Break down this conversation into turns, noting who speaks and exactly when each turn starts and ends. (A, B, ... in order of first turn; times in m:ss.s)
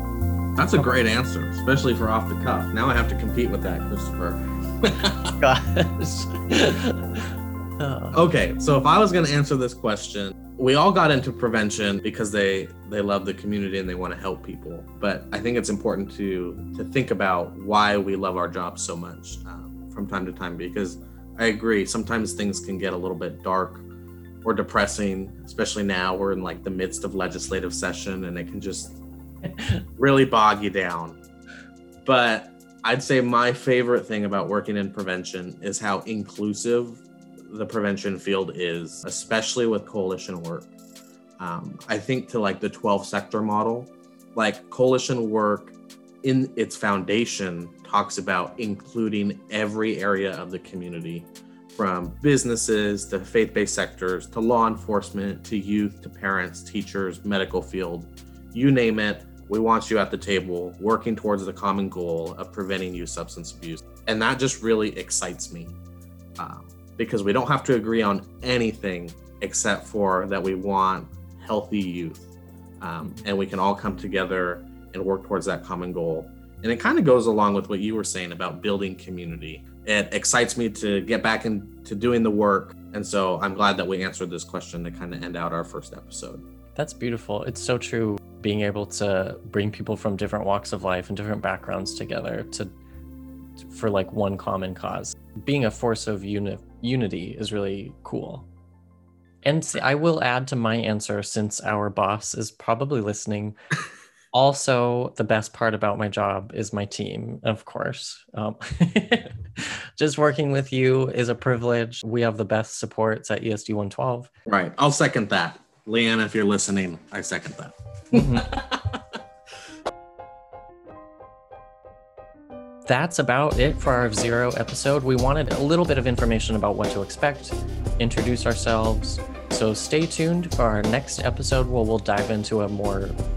0:00.6-0:05.4 A
0:05.4-0:08.2 B
0:08.1-0:23.8 A
0:24.4-0:29.0 A
0:30.0-0:31.2 A
0:32.0-0:40.7 A
0:41.4-1:05.8 A
1:06.4-1:12.3 A
1:12.8-1:26.4 A
1:26.8-1:32.7 B
1:33.6-1:38.5 B
1:39.4-1:43.6 B
1:44.3-1:54.3 B
1:54.5-1:59.0 A
1:58.1-1:58.5 B
2:02.9-2:13.2 B